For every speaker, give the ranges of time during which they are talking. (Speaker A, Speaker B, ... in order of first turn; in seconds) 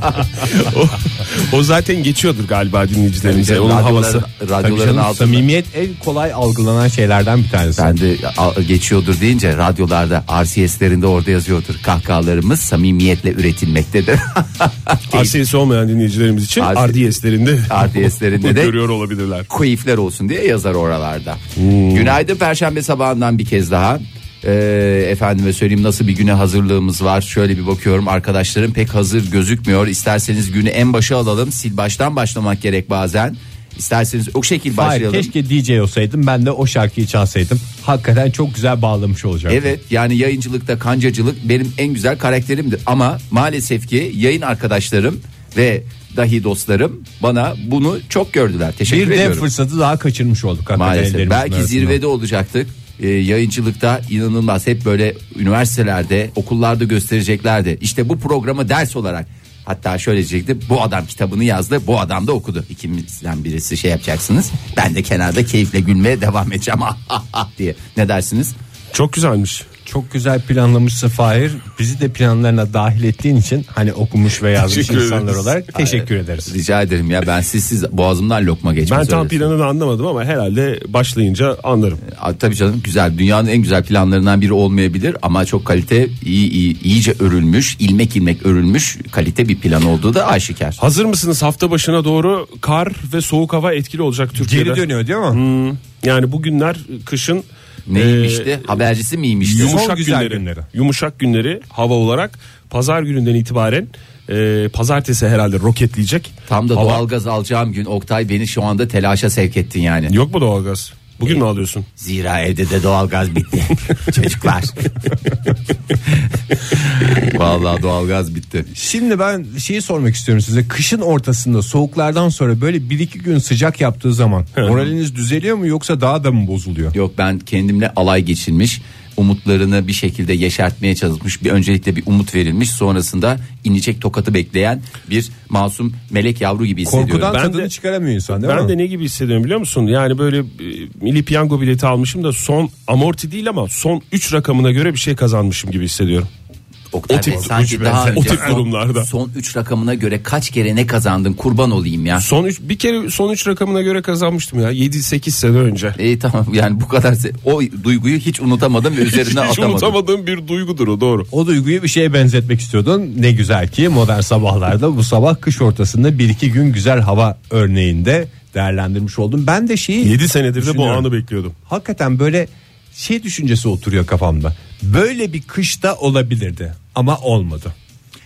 Speaker A: 0.4-4.2, 15.1-19.5, 21.6-22.2, 68.9-69.7, 74.6-75.5, 78.9-82.0, 90.8-98.7, 99.4-107.0, 110.1-111.8, 124.5-124.9, 137.3-137.7, 138.3-146.3, 147.1-149.1, 152.2-155.9, 159.0-161.3, 170.0-171.5
Speaker B: 3.2-5.4, 7.8-15.3, 16.6-17.0, 17.7-18.7, 19.5-21.4, 21.9-35.3, 39.5-49.5, 50.7-68.5, 75.8-79.5, 82.0-90.8, 97.9-99.8, 106.5-110.1, 112.0-114.8, 116.7-118.7, 126.9-137.3, 146.9-152.2, 155.9-160.0
Speaker C: 4.6-8.0, 34.7-39.7, 48.9-52.0, 69.8-76.5, 94.3-95.4, 99.5-100.7, 118.7-126.9, 136.8-138.7, 147.3-148.6, 161.3-171.1, 171.7-177.7